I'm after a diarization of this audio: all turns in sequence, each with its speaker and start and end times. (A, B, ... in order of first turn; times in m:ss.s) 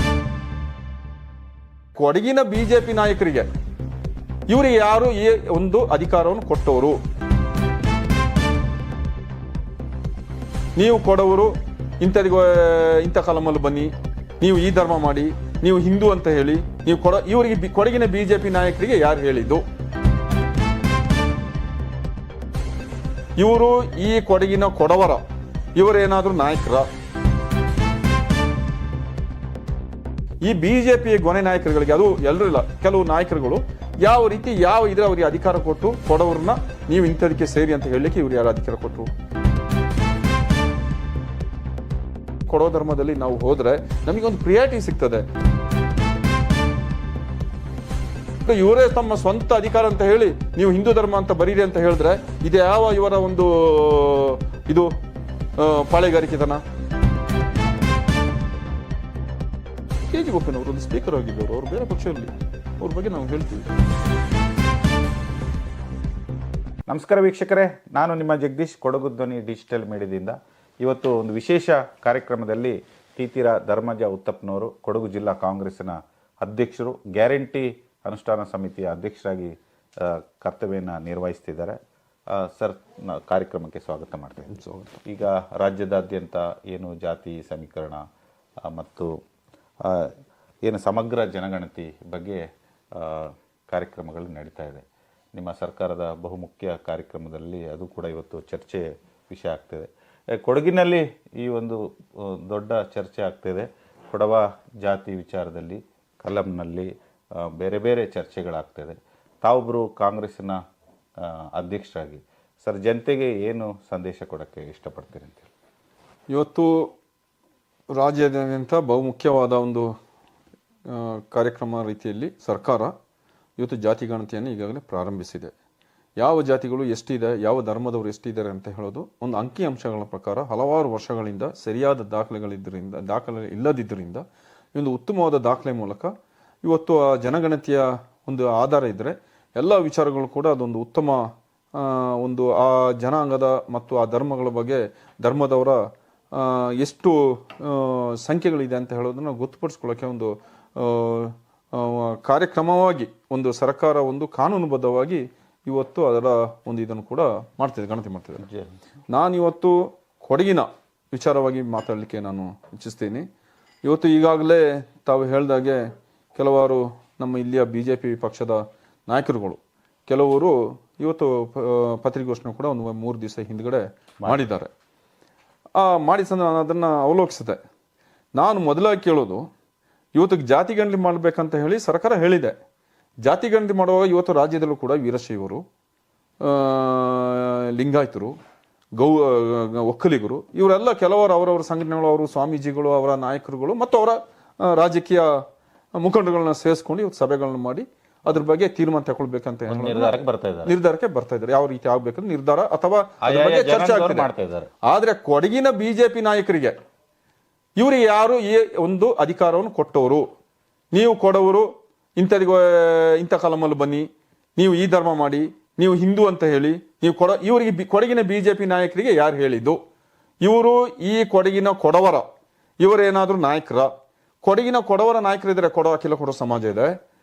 0:02.0-0:03.5 A
0:04.5-0:07.0 A
0:10.8-0:19.6 A
0:23.4-0:25.2 A
0:25.8-0:26.9 A
0:30.4-0:39.1 A
0:42.5-0:45.2 A
0:48.4-0:54.9 A
0:55.6-0:56.6 A
1:00.1-1:03.7 A
1:06.9-1:21.8 B
1:22.4-1:28.0 B
1:24.5-1:25.0 A
1:28.7-1:29.1 B
1:30.6-1:32.4 B
1:33.0-1:34.8 B
1:35.4-1:46.9 B
1:47.4-1:50.6 B
1:51.2-1:55.5 B
1:56.3-1:56.9 A
1:58.0-1:59.9 A
2:00.9-2:02.9 A
2:03.6-2:05.5 A
2:06.2-2:14.2 A
2:14.8-2:16.1 A
2:16.6-2:25.8 A
2:26.3-2:38.5 A
2:38.4-2:38.7 B
2:39.1-2:43.3 A
2:43.8-2:54.7 A
2:55.8-2:57.6 A
2:58.4-2:59.5 A
3:00.2-3:02.5 A
3:03.2-3:05.6 A
3:06.4-3:08.4 A
3:09.0-3:15.4 A
3:16.0-3:24.3 A
3:19.7-3:20.8 B
3:23.2-3:24.7 B
3:24.9-3:26.8 A
3:27.8-3:30.3 A
3:30.9-3:34.1 A
3:34.6-3:39.8 A
3:40.4-3:42.3 A
3:42.8-3:43.9 A
3:44.4-3:46.9 A